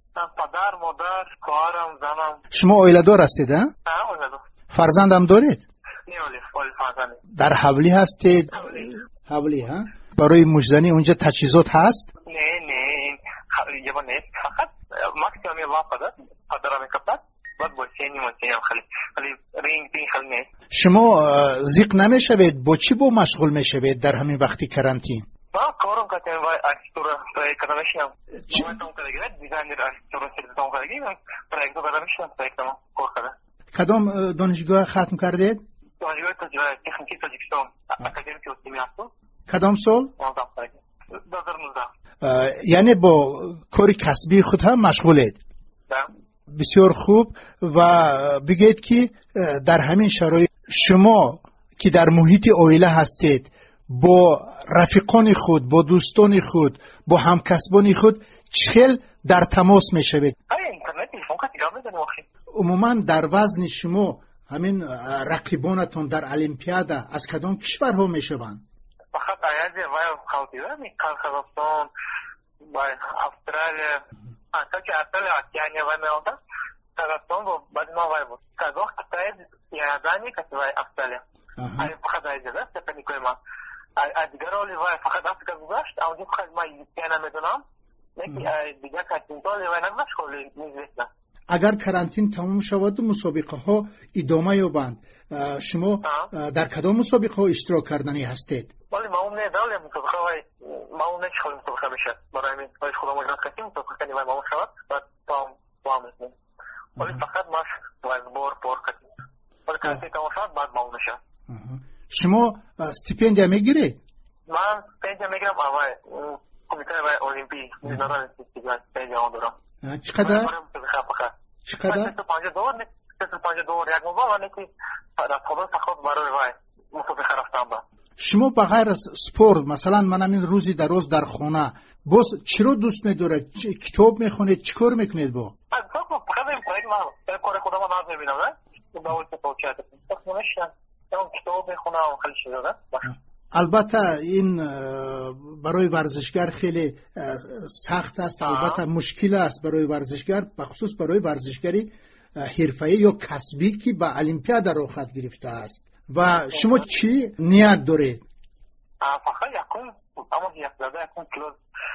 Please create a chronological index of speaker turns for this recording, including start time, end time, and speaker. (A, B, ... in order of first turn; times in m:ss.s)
0:00.1-0:02.4 A
0:02.5-0:03.7 B
0:03.8-0:04.4 A
0:04.7-0:05.6 B
0:06.1-0:07.2 A
0:07.4-0:12.1 B
0:12.2-0:20.5 A
0:20.7-0:25.2 B
0:25.5-0:33.3 A
0:33.7-0:35.6 B
0:36.0-0:39.1 A
0:39.5-0:40.1 B
0:40.2-0:41.9 A
0:42.2-0:45.4 B
0:46.5-1:00.3 B
1:00.5-1:02.2 A
1:02.5-1:08.6 B
1:09.1-1:11.9 A
1:12.6-1:14.0 A
1:14.5-1:16.4 A
1:17.0-1:21.2 A
1:21.6-1:21.9 B
1:21.8-1:23.4 A
1:24.0-1:27.6 A
1:28.2-1:31.1 A
1:31.5-1:38.7 B
1:36.0-1:36.3 A
1:38.9-1:46.3 A
1:47.0-1:49.1 A
1:49.7-1:51.2 A
1:51.5-1:54.0 B
1:54.5-1:59.5 A
1:59.8-2:00.5 B
2:00.2-2:01.3 A
2:01.6-2:02.1 B
2:01.9-2:07.8 A
2:08.2-2:15.5 B
2:15.7-2:23.1 A
2:23.0-2:38.2 B
2:28.4-2:28.8 A
2:39.0-2:41.6 A